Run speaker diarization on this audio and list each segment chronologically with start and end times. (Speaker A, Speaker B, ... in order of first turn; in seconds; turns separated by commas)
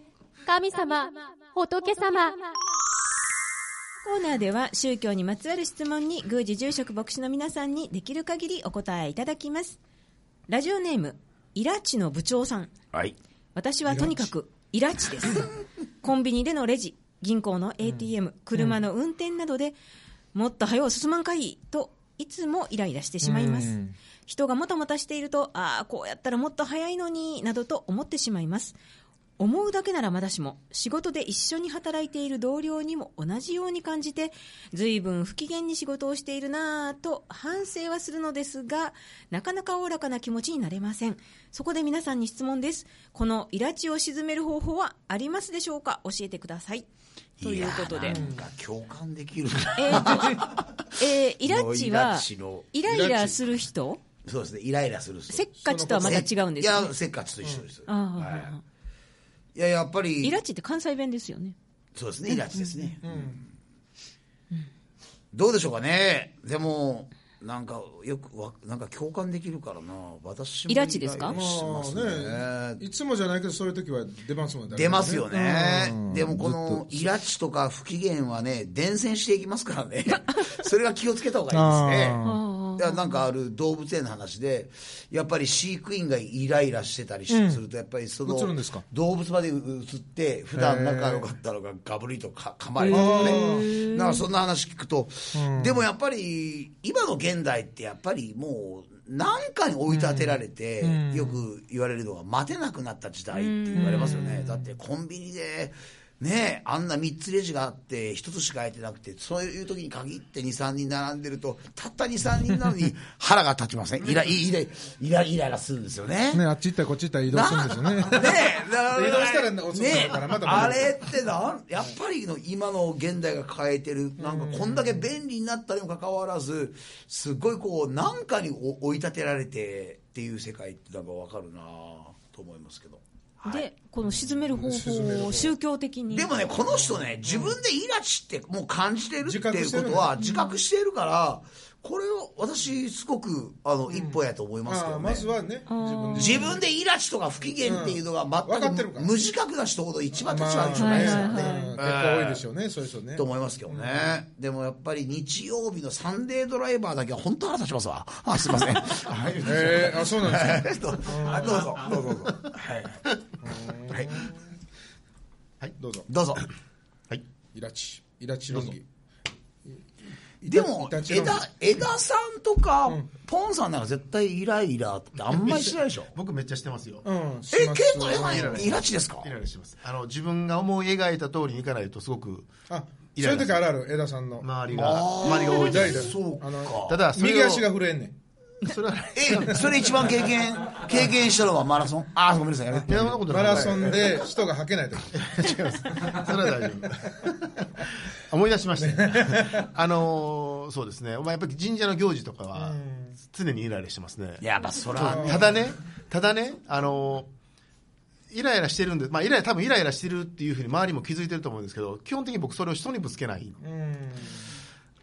Speaker A: 0.5-2.5, Speaker B: 4.0-9.8, Speaker B: 10.5-12.7, Speaker B: 13.5-19.8, Speaker C: 13.9-14.3, Speaker B: 20.3-28.8, Speaker C: 23.2-23.9, Speaker B: 29.4-46.9, Speaker B: 47.4-48.2, Speaker D: 47.4-53.2, Speaker C: 48.1-48.5, Speaker B: 49.8-54.0, Speaker C: 52.9-53.3, Speaker D: 54.2-58.5, Speaker B: 55.3-56.9, Speaker C: 55.6-56.2, Speaker B: 57.9-58.6, Speaker D: 59.5-60.4, Speaker B: 60.2-61.6, Speaker D: 62.0-63.5, Speaker B: 62.5-62.9, Speaker C: 63.0-63.4, Speaker D: 65.3-72.8, Speaker B: 70.7-71.4, Speaker C: 71.3-77.1, Speaker D: 74.7-82.2, Speaker B: 80.1-80.6, Speaker C: 81.5-82.4, Speaker B: 82.2-83.2, Speaker D: 82.8-116.5, Speaker C: 87.3-87.6, Speaker C: 88.2-88.9, Speaker C: 90.5-91.3, Speaker B: 92.8-94.2, Speaker C: 92.9-93.7, Speaker C: 95.3-95.8, Speaker C: 99.9-101.4, Speaker B: 103.3-104.3, Speaker C: 103.8-104.7, Speaker C: 116.3-121.2, Speaker D: 117.3-133.7, Speaker C: 124.2-125.1, Speaker B: 133.5-136.3, Speaker C: 134.1-135.6, Speaker D: 136.1-145.3, Speaker C: 136.7-137.6, Speaker C: 139.2-140.2, Speaker B: 140.2-140.6, Speaker C: 143.9-146.6, Speaker B: 145.7-146.5, Speaker D: 146.1-152.4, Speaker C: 147.6-149.1, Speaker C: 150.2-154.1, Speaker B: 150.8-151.8, Speaker D: 153.2-163.0, Speaker C: 159.4-162.3, Speaker C: 163.4-164.3, Speaker D: 163.9-164.1, Speaker C: 165.8-166.1, Speaker D: 166.1-166.5, Speaker C: 167.5-168.9, Speaker C: 170.4-171.5, Speaker D: 170.4-176.1, Speaker E: 175.3-177.0, Speaker C: 177.0-178.8, Speaker D: 177.5-179.3, Speaker E: 178.1-182.6, Speaker C: 182.7-184.5, Speaker E: 183.2-183.6, Speaker E: 184.4-186.1, Speaker D: 184.7-187.0, Speaker C: 185.4-188.2, Speaker E: 186.9-187.7, Speaker E: 188.6-190.3, Speaker D: 189.1-193.9, Speaker C: 192.7-196.3, Speaker E: 192.9-194.2, Speaker E: 195.1-207.3, Speaker C: 198.8-199.7, Speaker C: 202.5-203.2, Speaker D: 204.4-205.7, Speaker C: 205.0-205.5, Speaker E: 208.3-213.6, Speaker C: 213.6-214.4